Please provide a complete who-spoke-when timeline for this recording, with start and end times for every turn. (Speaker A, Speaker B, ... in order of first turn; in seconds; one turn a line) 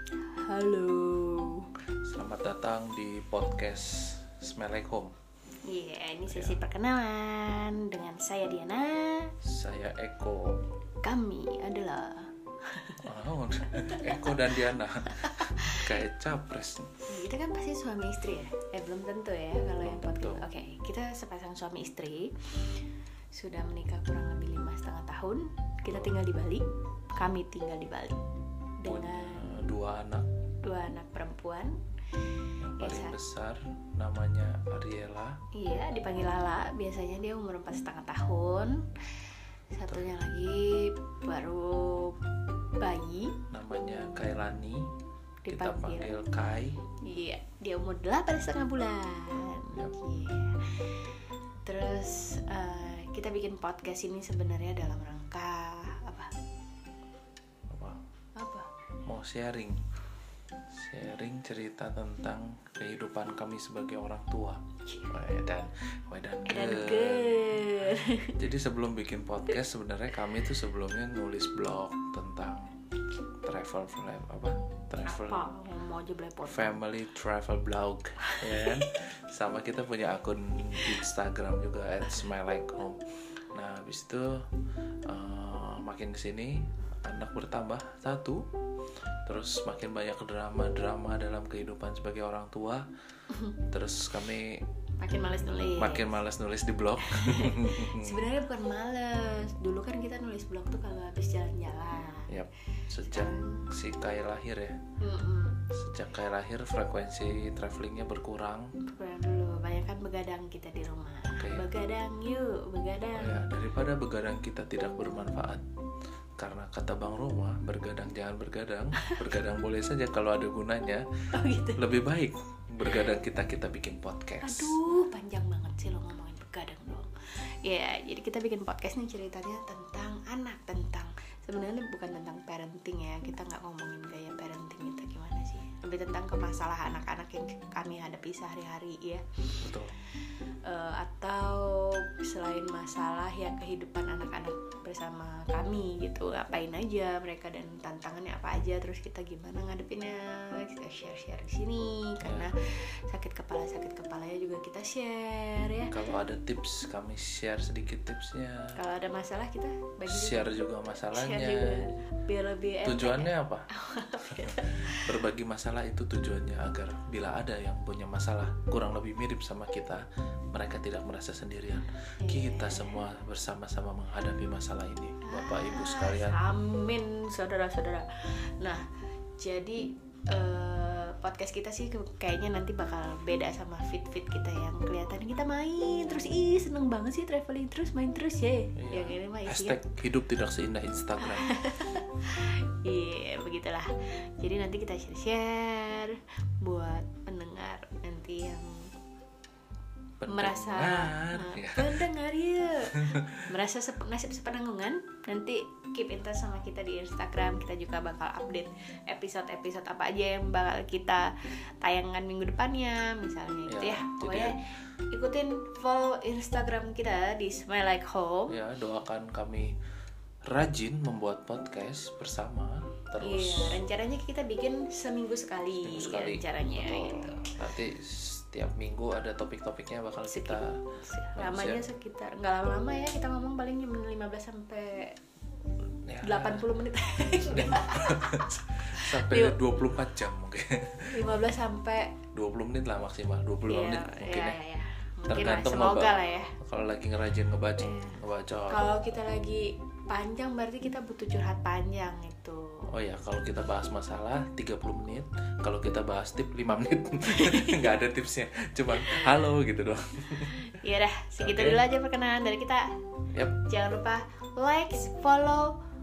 Speaker A: 0.3-1.7
Speaker B: 2.0-5.2
Speaker A: 5.7-9.3
Speaker B: 6.3-6.6
Speaker B: 9.4-10.7
Speaker A: 11.0-13.1
Speaker B: 13.0-16.9
Speaker A: 15.2-15.9
Speaker A: 17.1-22.8
Speaker B: 19.8-20.4
Speaker A: 23.3-28.2
Speaker A: 28.8-29.6
Speaker B: 28.9-30.3
Speaker A: 30.6-31.8
Speaker B: 32.6-35.4
Speaker A: 32.8-33.2
Speaker A: 35.5-38.9
Speaker A: 39.7-42.2
Speaker A: 42.8-43.4
Speaker B: 43.5-44.9
Speaker A: 45.5-46.2
Speaker B: 45.5-46.8
Speaker A: 47.0-51.0
Speaker A: 51.6-56.3
Speaker B: 57.7-58.0
Speaker A: 58.4-58.7
Speaker B: 59.1-59.8
Speaker B: 60.7-67.7
Speaker A: 66.5-68.4
Speaker B: 68.3-72.7
Speaker B: 73.4-75.5
Speaker A: 75.0-76.8
Speaker B: 76.4-84.4
Speaker A: 78.3-78.8
Speaker B: 85.1-88.5
Speaker B: 89.3-92.9
Speaker A: 93.3-93.6
Speaker B: 93.7-94.7
Speaker A: 95.0-96.2
Speaker B: 95.5-98.2
Speaker A: 97.0-102.3
Speaker B: 102.3-104.8
Speaker A: 103.0-103.7
Speaker A: 105.0-105.7
Speaker B: 105.7-108.7
Speaker A: 108.9-113.5
Speaker B: 111.3-111.7
Speaker B: 113.2-115.6
Speaker B: 116.4-121.1
Speaker A: 119.0-119.3
Speaker A: 121.3-122.0
Speaker B: 121.8-124.8
Speaker A: 124.4-127.1
Speaker A: 127.6-139.5
Speaker B: 139.6-139.9
Speaker A: 140.6-155.9
Speaker B: 152.2-152.5
Speaker B: 155.9-158.8
Speaker A: 158.8-160.5
Speaker B: 160.1-161.9
Speaker A: 161.1-165.1
Speaker B: 162.8-163.7
Speaker B: 164.2-176.4
Speaker A: 172.2-173.0
Speaker A: 175.2-178.1
Speaker A: 178.6-178.8
Speaker A: 179.4-189.8
Speaker B: 188.8-191.5
Speaker A: 191.2-198.9
Speaker B: 200.2-202.1
Speaker A: 200.3-218.6
Speaker B: 202.9-203.4
Speaker B: 213.7-214.6
Speaker B: 218.5-219.7
Speaker B: 220.4-223.8
Speaker A: 223.2-227.6
Speaker B: 225.8-230.8
Speaker A: 230.3-235.2
Speaker B: 231.3-231.9
Speaker B: 236.1-236.7
Speaker A: 236.2-239.6
Speaker B: 237.5-241.2
Speaker A: 241.1-242.2
Speaker B: 242.3-244.6
Speaker A: 243.7-246.6
Speaker B: 245.3-249.2
Speaker A: 247.8-248.2
Speaker A: 248.7-252.9
Speaker B: 252.9-260.7
Speaker A: 257.3-258.0
Speaker A: 258.9-259.3
Speaker A: 260.5-262.9
Speaker B: 261.4-261.8
Speaker A: 263.7-265.8